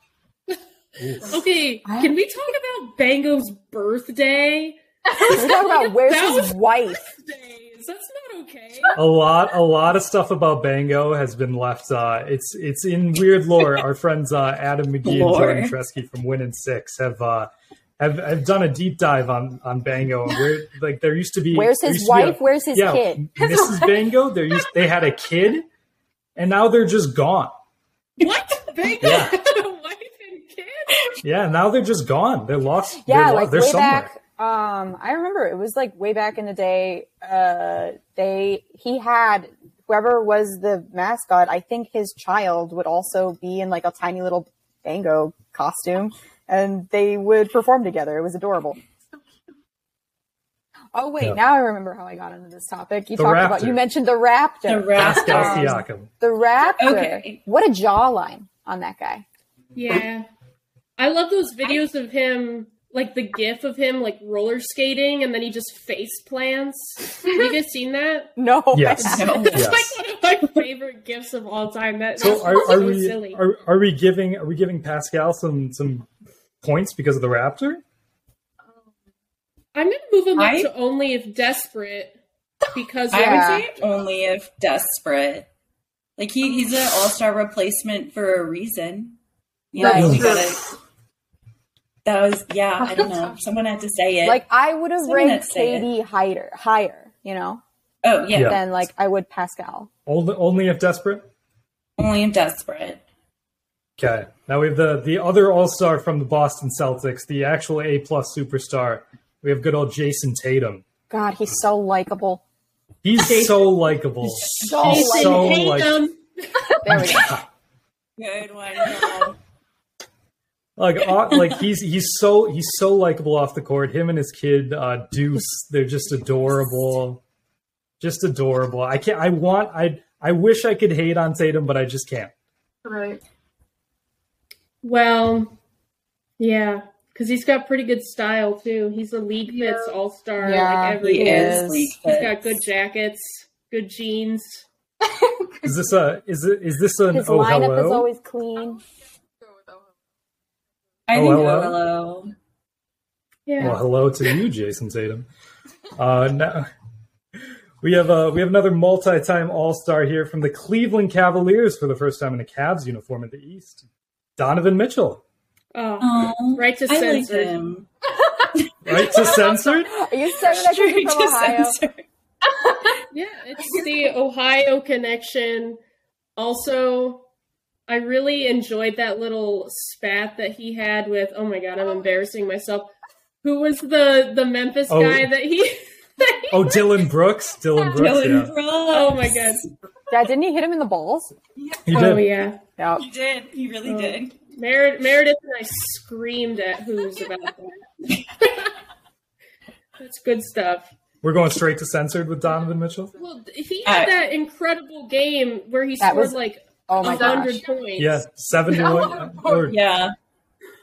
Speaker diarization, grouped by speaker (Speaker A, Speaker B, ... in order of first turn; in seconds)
Speaker A: 1.0-1.4, 8.9-25.6, 26.4-27.5, 29.0-29.4, 31.2-34.1, 53.2-53.8, 54.9-56.1, 68.7-70.0, 72.2-76.1, 76.6-77.8, 89.9-90.4, 98.3-98.6, 100.0-101.2, 104.0-110.8, 113.0-116.0, 116.9-117.4, 120.8-127.2, 128.0-132.3, 145.6-148.1, 151.1-151.8, 153.6-155.3, 156.0-156.7, 157.8-163.8, 164.4-165.2, 168.8-169.9, 184.9-185.3, 186.5-188.5, 191.9-192.3, 201.2-203.1, 208.0-209.8
Speaker B: 1.3-9.0, 28.2-31.1, 59.7-60.3, 61.0-68.3, 69.3-73.4, 79.7-82.2, 82.7-83.7, 113.2-113.8, 114.8-116.7, 134.8-135.5, 136.4-144.6, 153.5-153.8, 165.7-167.6, 173.1-175.8, 176.4-177.2, 177.9-182.9, 183.4-186.8, 188.9-189.6, 191.9-192.6, 193.9-197.8, 198.4-198.7, 200.0-200.9, 203.2-208.2
Speaker C: 1.9-2.1, 5.3-7.1, 21.5-23.2, 33.0-48.8, 50.9-59.2, 68.4-69.5, 83.1-83.6, 89.8-90.2, 94.2-97.6, 98.4-99.9, 111.1-112.4, 114.4-115.7, 116.8-117.4, 140.4-141.9, 147.1-148.8, 169.8-171.8, 190.1-191.3, 192.8-193.0, 206.0-207.6
Speaker D: 5.1-5.5, 23.4-24.1, 78.6-78.9, 89.8-90.6, 92.8-93.7, 132.8-133.2, 139.4-139.9, 145.0-145.9, 149.4-150.0, 168.9-169.7, 172.4-173.0, 173.7-174.1, 187.7-188.1, 191.6-192.1, 202.5-203.3, 207.0-207.9, 208.6-209.8
Speaker E: 15.0-15.7, 54.7-55.8, 56.8-57.4, 69.0-69.7, 80.4-80.7, 83.1-85.5, 86.2-89.2, 89.7-90.6, 92.0-94.4, 95.0-95.9, 98.0-98.6, 102.0-103.0, 114.5-115.1, 118.2-119.4, 121.3-121.6, 141.0-142.6, 151.1-152.3, 166.0-167.9, 168.7-169.1, 170.4-172.0, 187.9-189.7, 192.9-194.3, 203.8-204.1, 209.7-210.1